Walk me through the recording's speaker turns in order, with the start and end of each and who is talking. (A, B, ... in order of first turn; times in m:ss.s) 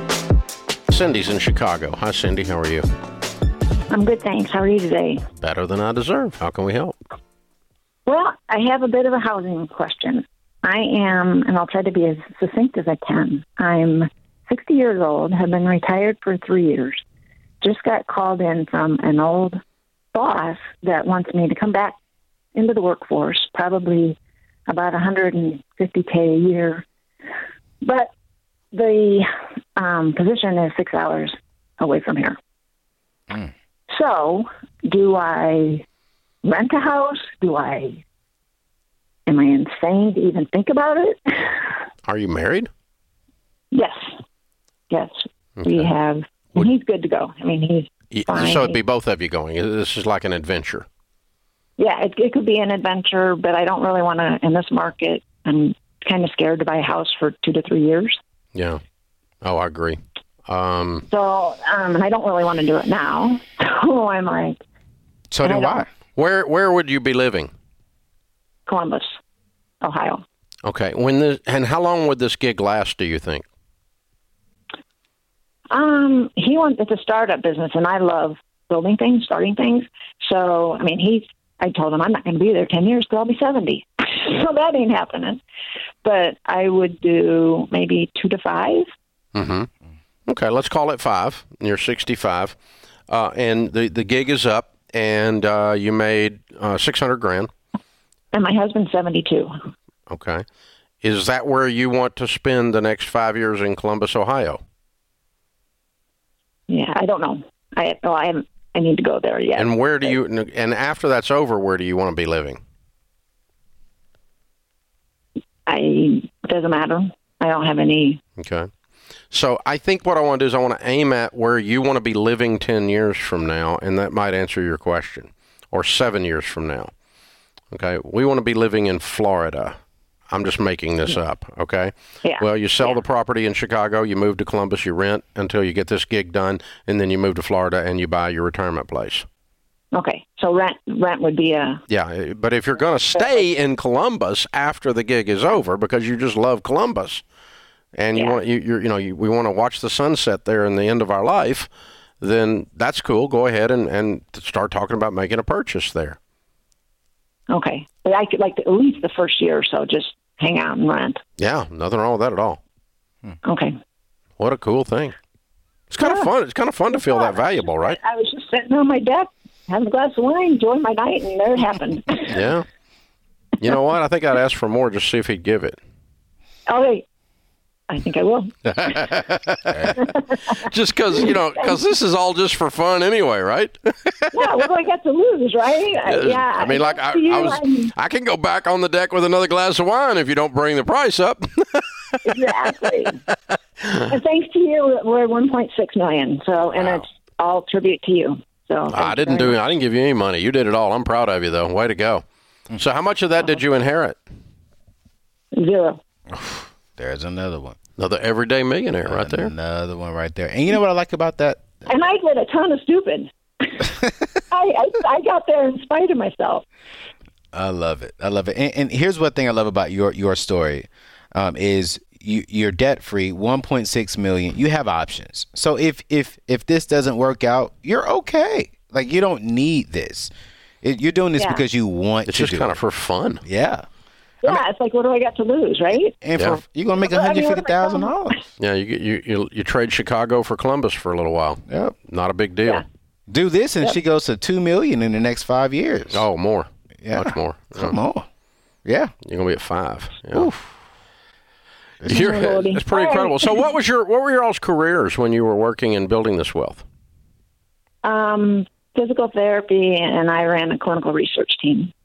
0:00.9-0:02.8 A
0:03.9-0:05.2 B
0:05.4-0:06.9 A
0:08.0-0:17.0 B
0:17.6-0:19.6 B
0:20.1-0:22.0 B
0:22.5-0:26.8 B
0:27.8-0:28.1 B
0:28.7-0:32.4 B
0:33.9-0:35.8 B
0:36.4-0:38.0 B
0:39.3-0:41.7 B
0:42.0-0:42.7 A
0:43.7-0:44.1 B
0:44.9-0:48.8 B
0:45.6-0:45.9 A
0:48.1-0:50.9 A
0:51.8-0:58.2 B
0:58.5-0:58.8 A
0:59.4-1:01.1 A
1:01.1-1:04.6 B
1:05.3-1:05.9 C
1:05.4-1:05.8 B
1:06.2-1:07.5 A
1:08.6-1:09.2 B
1:09.8-1:10.2 B
1:10.6-1:13.4 A
1:15.7-1:25.4 B
1:26.0-1:28.8 B
1:29.3-1:29.7 A
1:30.3-1:32.6 A
1:33.1-1:37.5 A
1:38.3-1:39.5 B
1:40.1-1:40.4 A
1:41.0-1:44.6 A
1:46.7-1:50.2 B
1:49.6-1:52.6 A
1:55.7-1:58.2 B
1:58.4-1:58.7 A
1:59.3-2:06.9 A
2:07.7-2:09.8 A
2:10.3-2:19.2 A
2:12.2-2:13.0 B
2:19.9-2:21.8 B
2:21.9-2:27.2 A
2:27.9-2:31.7 A
2:28.1-2:28.4 B
2:32.2-2:36.2 A
2:37.5-2:41.2 B
2:41.4-2:42.6 A
2:43.4-2:43.7 B
2:44.4-2:45.1 A
2:45.9-2:48.0 A
2:46.0-2:46.3 B
2:46.9-2:52.4 B
2:52.3-2:52.6 A
2:53.6-2:55.8 A
2:56.7-2:57.0 B
2:57.9-2:59.1 B
2:58.8-3:04.4 A
2:59.9-3:00.2 B
3:04.3-3:07.9 B
3:06.0-3:12.2 A
3:12.2-3:13.2 B
3:14.0-3:19.6 B
3:16.8-3:17.0 A
3:18.9-3:24.2 A
3:25.5-3:26.0 B
3:26.3-3:27.8 C
3:28.0-3:29.5 A
3:29.0-3:31.7 C
3:31.8-3:33.9 B
3:34.5-3:36.6 B
3:37.5-3:50.3 C
3:50.8-3:52.8 C
3:51.4-3:51.6 B
3:52.2-3:53.4 A
3:53.4-3:53.8 C
3:54.4-3:56.1 B
3:56.1-3:58.5 C
3:57.0-3:58.4 B
3:58.6-4:02.8 A
4:01.7-4:02.0 C
4:03.3-4:06.2 C
4:06.1-4:08.0 A
4:07.0-4:08.2 C
4:08.8-4:09.1 C
4:09.2-4:10.5 A
4:10.3-4:10.7 C
4:12.0-4:12.3 C
4:12.0-4:16.8 A
4:12.0-4:13.7 B
4:18.0-4:21.9 B